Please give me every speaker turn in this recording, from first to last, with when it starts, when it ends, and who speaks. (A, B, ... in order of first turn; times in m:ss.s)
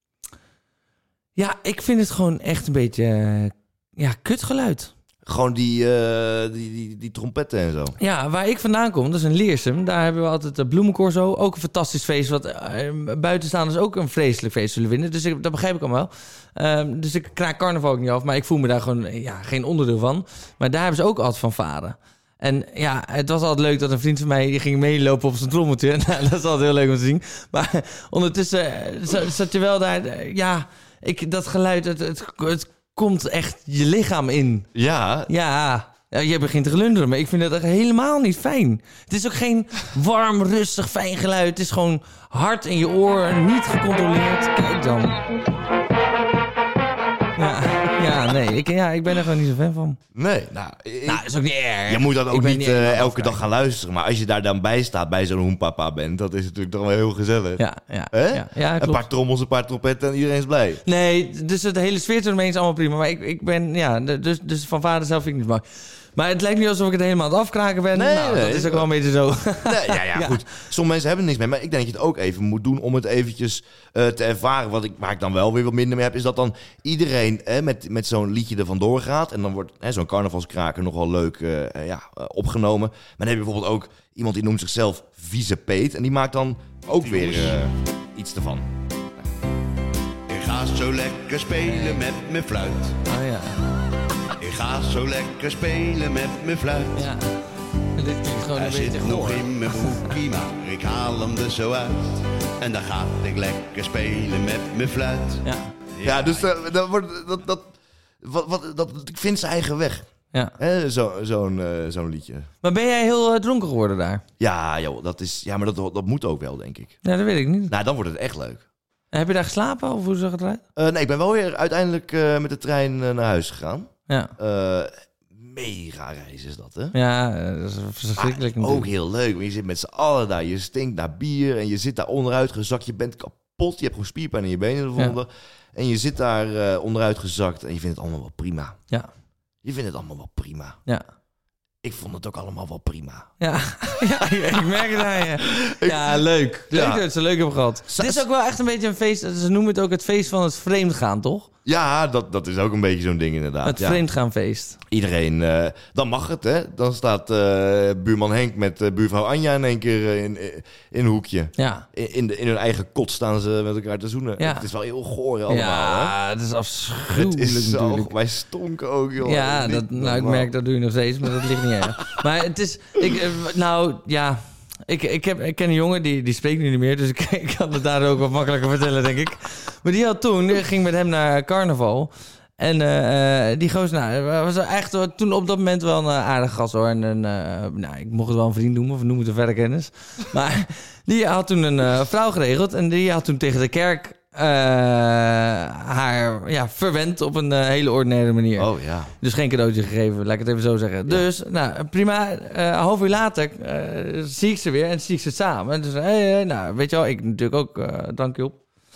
0:01.4-0:04.9 A
0:05.2-0:08.0 B
0:08.0-0:34.7 A
0:34.7-0:35.3 B
0:35.3-0:45.2 A
0:47.4-0:50.0 A
0:50.1-0:51.2 B
0:51.0-0:53.4 A
0:51.8-1:00.8 B
0:57.6-0:59.0 A
1:00.8-1:05.6 A
1:06.1-1:10.4 A
1:07.9-1:08.9 B
1:09.6-1:28.7 B
1:27.0-1:27.6 C
1:30.3-1:33.0 C
1:31.6-1:32.0 A
1:33.1-1:33.6 A
1:34.4-1:37.1 C
1:36.9-1:37.4 A
1:38.0-1:39.5 A
1:38.5-1:45.4 C
1:45.4-1:45.7 A
1:46.0-1:46.5 C
1:46.0-1:52.5 B
1:52.6-1:54.2 A
1:54.4-1:57.0 B
1:57.0-1:57.7 A
1:57.7-1:58.6 B
1:59.1-2:00.6 A
2:00.8-2:07.0 B
2:04.1-2:04.3 A
2:06.9-2:08.9 A
2:08.2-2:18.8 B
2:19.6-2:20.8 B
2:21.8-2:23.3 B
2:23.4-2:31.5 A
2:24.9-2:27.0 B
2:27.9-2:28.2 B
2:31.6-2:34.0 B
2:33.6-2:34.8 A
2:34.9-2:46.2 B
2:41.6-2:41.8 A
2:44.4-2:44.7 A
2:45.5-2:48.1 A
2:47.1-2:50.5 B
2:49.2-3:18.7 A
3:18.6-3:19.1 B
3:19.2-3:28.6 A